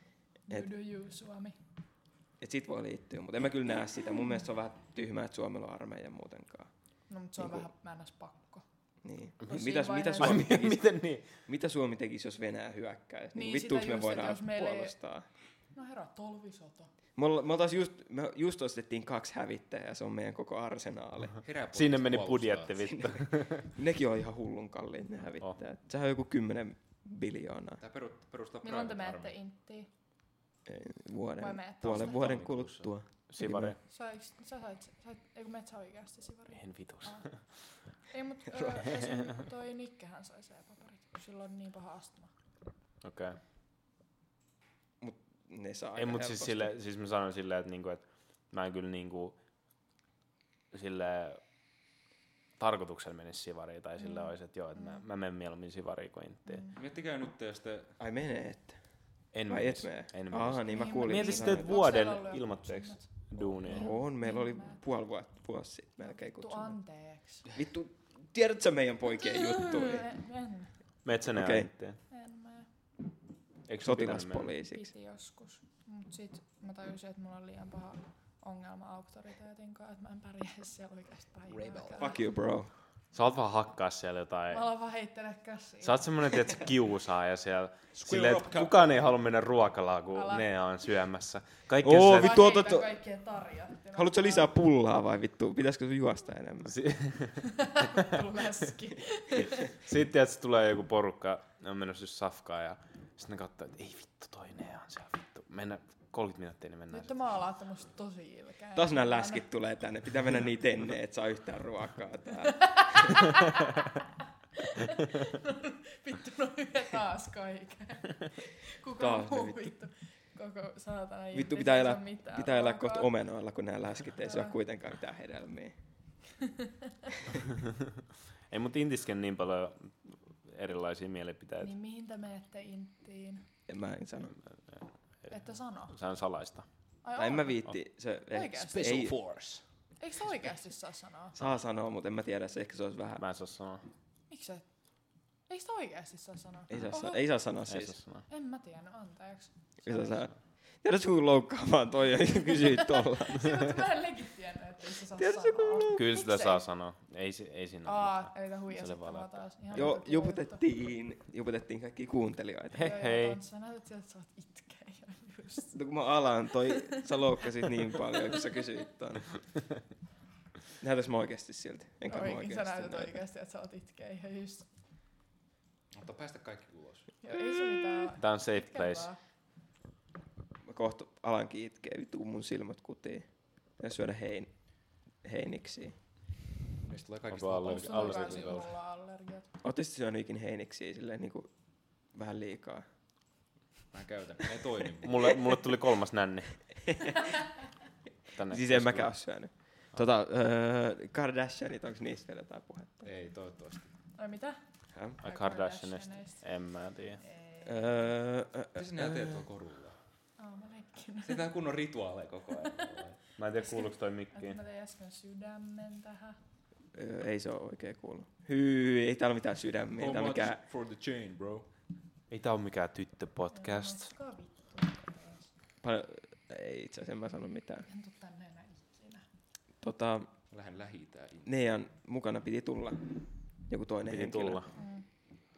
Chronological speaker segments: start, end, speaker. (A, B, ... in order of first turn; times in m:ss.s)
0:00.5-0:01.6 A
0:02.4-0:06.7 B
0:07.1-0:08.6 A
0:07.4-0:07.7 B
0:09.0-0:15.3 B
0:09.4-0:10.7 A
0:10.2-0:11.3 C
0:13.4-0:15.0 A
0:15.7-0:16.9 A
0:17.2-0:21.4 B
0:21.4-0:22.9 D
0:21.7-0:23.7 C
0:22.9-0:27.8 B
0:27.8-0:29.4 D
0:28.6-0:29.9 A
0:30.7-0:33.8 B
0:31.4-0:32.3 A
0:31.9-0:32.9 D
0:33.3-0:33.8 C
0:33.9-0:37.3 A
0:36.6-0:37.4 C
0:38.1-0:42.3 A
0:43.0-0:43.4 C
0:45.0-0:46.8 B
0:46.0-0:49.4 C
0:50.7-0:51.4 C
0:52.6-0:56.6 C
0:54.0-0:55.0 A
0:56.5-0:56.8 A
0:56.7-0:58.0 D
0:58.0-0:58.8 B
0:59.3-1:03.9 C
0:59.5-1:01.8 B
1:00.7-1:04.8 A
1:03.6-1:06.8 B
1:06.0-1:07.5 A
1:07.5-1:10.1 B
1:09.2-1:10.7 A
1:11.0-1:12.0 C
1:11.3-1:11.7 B
1:12.1-1:12.7 A
1:13.7-1:14.5 C
1:13.8-1:14.9 B
1:14.6-1:22.2 A
1:21.5-1:22.1 D
1:22.0-1:22.7 B
1:23.1-1:24.7 C
1:24.5-1:26.1 A
1:25.8-1:32.5 C
1:27.9-1:28.9 D
1:30.1-1:30.5 A
1:31.8-1:32.9 B
1:32.0-1:34.5 A
1:33.9-1:36.8 B
1:36.7-1:37.5 C
1:37.5-1:39.7 A
1:39.4-1:47.1 C
1:46.9-1:49.5 A
1:48.8-1:53.2 B
1:52.6-1:53.8 A
1:54.6-2:03.1 A
1:59.0-1:59.7 B
2:01.3-2:05.8 B
2:04.3-2:04.6 A
2:08.5-2:11.7 C
2:11.6-2:13.4 A
2:13.7-2:14.4 B
2:15.3-2:16.0 A
2:15.9-2:16.7 C
2:17.0-2:17.7 A
2:17.2-2:19.2 B
2:18.3-2:19.1 A
2:18.6-2:19.6 D
2:20.0-2:21.4 A
2:21.4-2:23.2 B
2:23.2-2:23.8 C
2:24.3-2:24.7 A
2:25.5-2:27.3 A
2:26.7-2:28.0 B
2:27.7-2:28.2 C
2:28.3-2:30.3 A
2:29.8-2:33.7 B
2:32.8-2:36.6 A
2:35.2-2:36.2 B
2:35.9-2:39.4 C
2:37.8-2:40.6 A
2:39.7-2:43.0 B
2:42.7-2:43.4 C
2:42.8-2:45.8 A
2:45.7-2:49.4 B
2:46.7-2:47.2 A
2:48.0-2:48.6 A
2:50.8-2:53.2 B
2:52.1-2:54.7 A
2:55.9-2:57.1 D
2:57.2-2:59.2 A
2:58.2-2:59.1 C
3:00.6-3:04.5 B
3:05.2-3:06.0 B
3:06.9-3:08.7 D
3:07.3-3:08.7 C
3:07.6-3:09.5 A
3:09.6-3:11.5 B
3:12.1-3:12.8 B
3:13.9-3:15.6 D
3:15.0-3:16.7 C
3:16.9-3:17.2 B
3:18.3-3:19.1 C
3:18.4-3:23.1 B
3:23.0-3:23.9 D
3:24.2-3:24.6 A
3:25.2-3:26.4 A
3:25.2-3:27.2 C
3:27.2-3:28.0 A
3:27.6-3:29.4 B
3:28.8-3:30.0 D
3:30.4-3:31.5 A
3:31.2-3:33.2 D
3:33.4-3:34.6 C
3:33.6-3:36.4 A
3:36.9-3:40.6 B
3:40.0-3:41.7 D
3:42.3-3:44.1 C
3:43.5-3:45.5 A
3:45.8-3:47.9 B
3:47.9-3:49.2 A
3:49.8-3:50.3 B
3:50.5-3:51.6 D
3:51.4-3:53.0 B
3:53.7-3:54.6 B
3:54.1-3:54.7 C
3:54.8-3:55.0 A